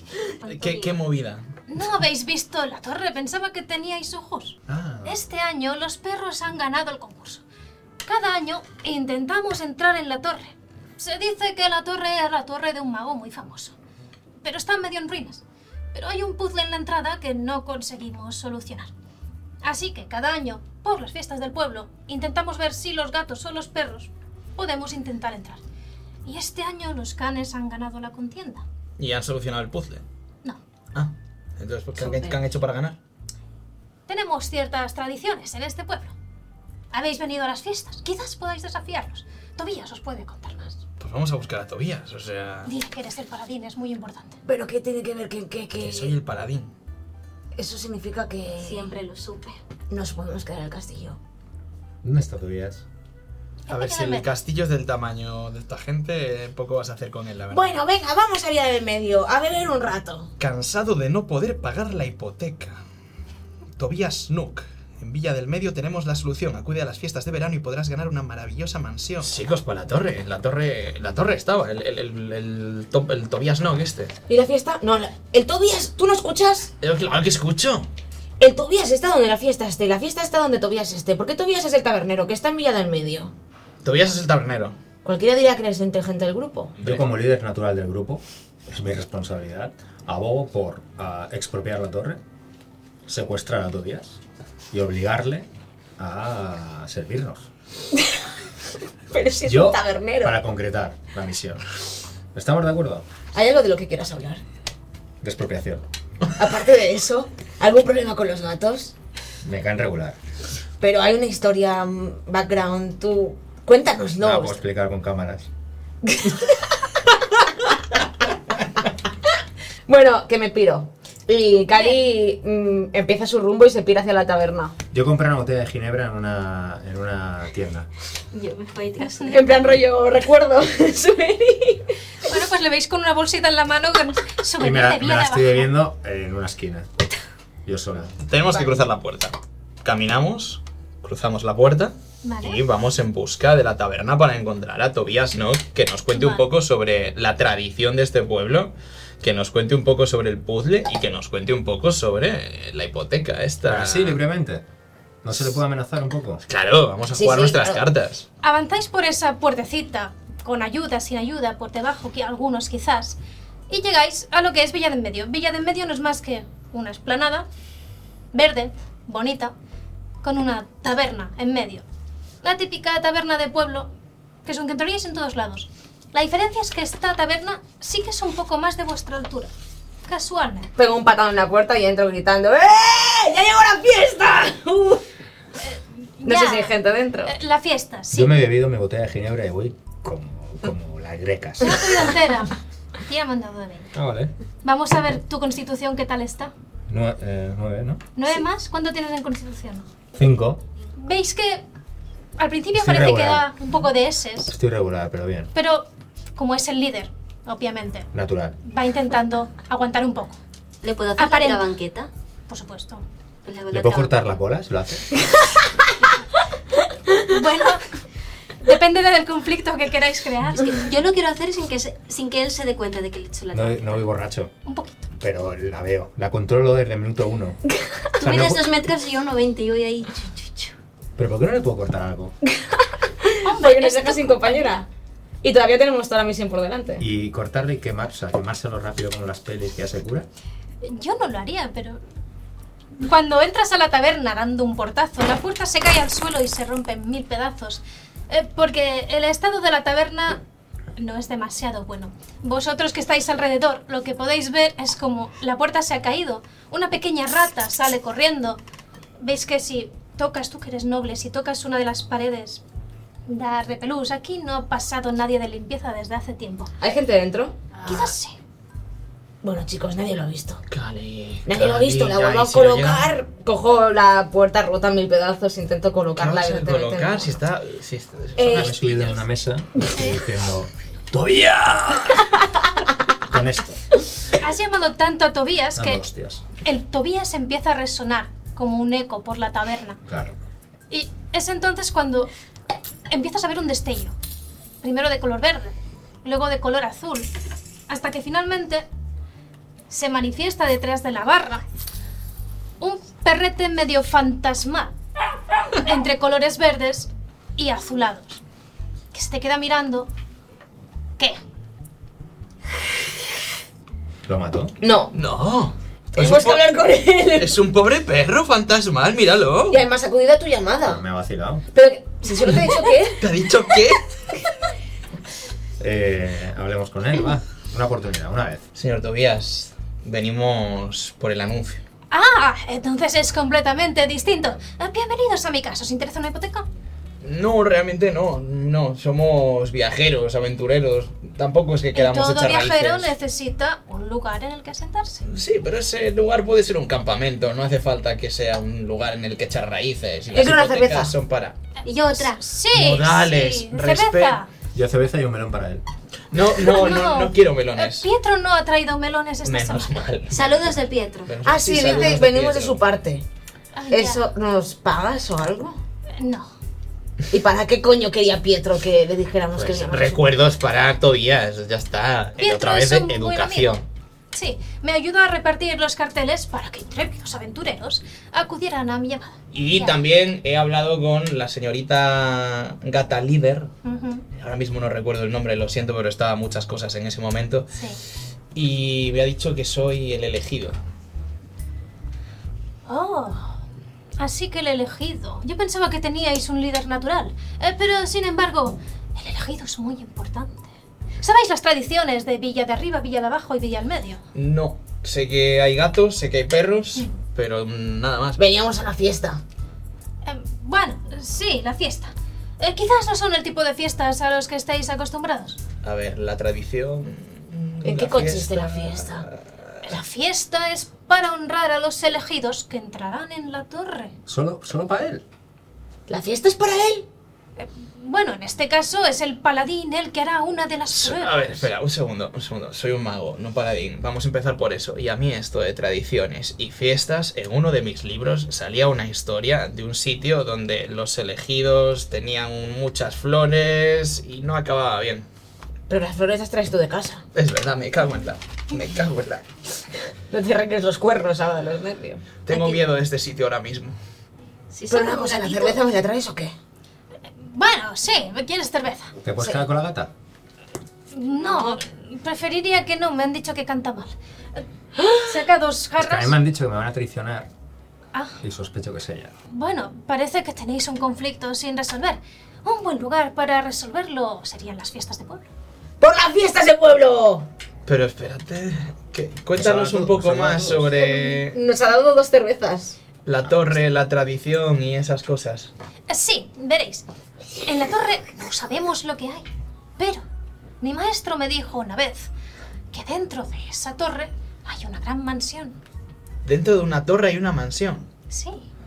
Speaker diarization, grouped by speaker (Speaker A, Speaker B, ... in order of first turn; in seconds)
Speaker A: 0.4-1.0, 32.0-32.4, 48.6-49.6, 128.3-129.8, 210.8-212.1, 213.4-214.2, 220.6-224.0, 228.2-230.7, 351.8-352.4, 360.3-361.4, 454.7-455.9, 461.5-461.8
Speaker B: 0.5-1.4, 29.0-30.0, 30.9-33.0, 41.0-42.7, 45.8-46.7, 53.7-57.7, 60.4-62.8, 63.8-74.1, 76.8-77.9, 83.8-84.8, 138.2-154.2, 156.5-158.2, 270.7-273.1, 276.1-279.2, 315.1-319.9, 323.1-324.1, 328.8-331.8, 337.2-343.1, 345.2-351.6, 352.7-354.4, 356.3-358.1, 359.4-360.7, 361.3-362.8, 369.5-373.8, 379.5-383.7, 384.4-387.7, 388.5-390.8, 404.4-408.4, 415.8-419.4, 430.9-445.3, 447.4-449.4, 452.4-453.9, 477.9-481.6, 483.2-485.7, 496.4-498.1
Speaker C: 1.7-7.4, 8.0-13.8, 14.4-15.4, 15.9-18.9, 19.6-25.6, 26.2-28.6, 34.1-36.1, 36.9-40.8, 42.6-44.4, 53.7-54.3, 121.7-122.1, 129.0-129.4, 132.2-135.7, 142.2-142.6, 146.1-146.4, 158.4-163.2, 163.7-167.4, 168.3-169.5, 170.2-171.8, 172.4-173.9, 174.4-179.5, 180.1-180.7, 185.6-188.3, 191.6-193.9, 194.6-196.5, 198.1-199.9, 201.0-201.6, 202.4-204.5, 205.5-208.1, 208.6-210.4, 211.2-211.7, 212.5-213.0, 217.2-217.9, 218.6-220.9, 224.6-225.1, 233.4-234.8, 240.8-242.0, 242.9-250.4, 250.9-258.6, 259.2-262.6, 263.3-266.7, 267.9-268.4, 279.9-280.2, 284.3-286.0, 286.6-290.0, 290.9-292.3, 293.1-294.1, 294.8-297.3, 297.9-298.9, 299.9-301.6, 302.8-304.9, 305.7-308.4, 309.1-310.1, 332.1-336.6, 341.9-345.2, 351.8-354.5, 356.6-360.0, 361.9-362.1, 363.8-364.3, 366.1-366.5, 372.4-373.8, 374.3-380.0, 383.8-384.2, 392.9-393.6, 394.2-400.7, 401.2-404.2, 410.2-415.6, 419.8-424.1, 427.6-431.7, 457.4-459.1, 461.1-464.6, 465.2-466.4, 469.5-475.4, 486.1-487.1, 487.6-490.2, 490.8-492.3, 492.9-495.8, 498.3-498.7
Speaker D: 4.7-5.2, 52.0-52.8, 86.8-92.2, 93.1-94.2, 94.7-95.5, 96.0-97.5, 99.4-101.6, 102.3-103.0, 105.2-105.8, 109.4-110.2, 114.2-115.5, 124.9-127.9, 134.6-136.9, 137.6-138.2, 153.6-154.6, 155.2-156.4, 188.1-192.1, 193.9-194.3, 196.9-198.0, 200.1-200.6, 202.8-203.5, 204.4-205.5, 208.1-208.6, 213.7-215.1, 223.5-224.5, 225.2-227.6, 228.2-228.6, 231.2-232.4, 237.0-240.3, 278.4-282.3, 283.3-283.8, 285.8-286.4, 290.1-290.4, 314.3-314.7, 320.8-321.6, 325.8-328.6, 354.8-355.8, 424.3-425.2, 459.2-460.1, 466.0-467.5, 468.4-469.3, 479.5-481.0
Speaker E: 44.4-46.1, 47.5-48.9, 49.9-51.2, 57.5-60.3, 74.3-76.7, 78.4-83.3, 85.0-86.7, 99.1-100.4, 103.3-104.4, 106.4-108.9, 110.8-114.6, 116.1-116.5, 119.9-124.8, 129.3-131.9, 138.5-138.8, 157.1-157.8, 180.8-185.0, 186.2-187.3, 233.2-234.9, 235.4-237.0, 266.8-267.6, 269.4-270.6, 271.4-277.4, 278.4-278.7, 314.8-315.1, 316.1-317.6, 319.7-321.0, 321.7-323.2, 350.3-351.1, 361.4-363.2, 363.9-365.8, 367.3-370.2, 408.4-409.4, 417.8-419.2, 426.1-427.1, 445.9-447.2, 450.3-452.8, 454.9-456.5, 465.0-465.2, 476.0-477.5, 481.0-483.0